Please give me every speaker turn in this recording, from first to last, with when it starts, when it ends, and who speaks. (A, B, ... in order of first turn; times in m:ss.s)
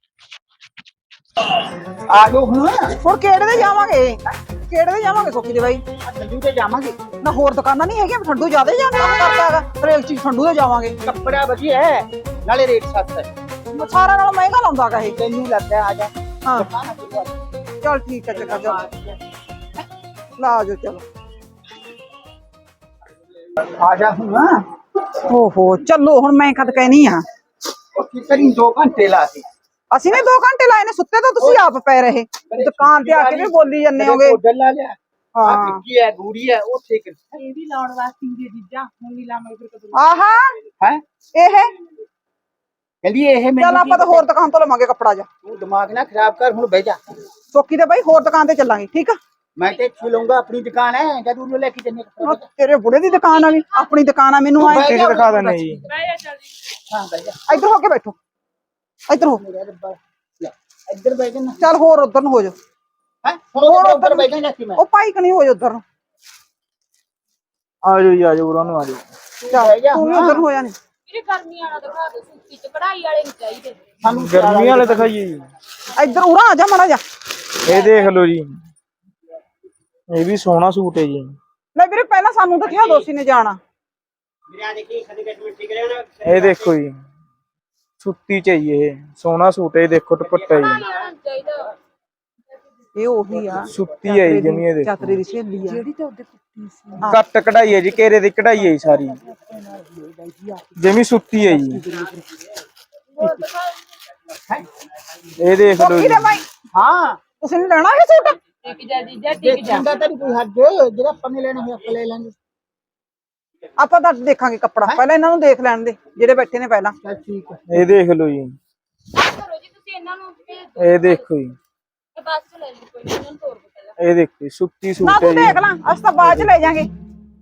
0:01.5-0:03.0 A
0:03.0-0:05.8 B
0:06.0-0:07.0 A
0:07.2-0:11.0 B
0:11.0-0:13.3 A
0:13.7-0:15.2 B
0:15.1-0:17.4 A
0:17.8-0:18.8 B
0:18.3-0:19.2 A
0:20.4-0:21.0 B
0:23.6-0:24.6 A
0:25.2-0:27.2 B
0:27.9-0:29.4 A
0:29.9-0:34.4 B
0:32.5-0:37.4 A
0:35.3-0:35.8 B
0:37.3-0:40.1 C
0:39.9-0:40.6 B
0:41.3-0:41.7 B
0:43.0-0:44.2 A
0:43.6-0:45.3 B
0:45.4-0:47.0 A
0:47.5-0:49.2 B
0:49.6-0:52.4 A
0:52.2-0:55.3 B
0:54.6-0:56.0 A
0:54.6-0:55.8 D
0:55.9-0:56.6 C
0:56.9-0:57.6 A
0:57.5-0:58.2 B
0:59.1-0:59.4 B
0:59.1-1:01.6 A
1:01.6-1:02.6 B
1:03.2-1:04.8 A
1:03.6-1:05.8 B
1:07.8-1:09.0 D
1:09.4-1:10.4 A
1:09.5-1:10.8 B
1:11.1-1:13.8 E
1:14.0-1:15.1 A
1:14.1-1:15.5 D
1:15.9-1:17.0 B
1:17.6-1:18.6 D
1:20.1-1:21.4 D
1:21.8-1:23.6 B
1:24.6-1:25.9 A
1:26.2-1:26.9 D
1:28.0-1:30.8 D
1:32.9-1:35.8 B
1:33.7-1:35.2 D
1:35.6-1:37.2 C
1:37.1-1:39.2 D
1:38.5-1:40.8 C
1:40.8-1:41.8 D
1:41.4-1:42.2 C
1:43.2-1:43.5 C
1:45.4-1:46.4 D
1:45.8-1:46.4 B
1:46.7-1:47.2 A
1:47.4-1:48.4 B
1:48.6-1:49.9 C
1:49.4-1:52.3 A
1:53.8-1:57.0 B
1:57.0-1:57.9 A
1:57.7-1:58.5 D
1:59.2-2:01.2 E
2:00.8-2:01.6 D
2:02.2-2:03.9 E
2:04.0-2:05.7 D
2:05.0-2:06.9 B
2:06.2-2:06.5 D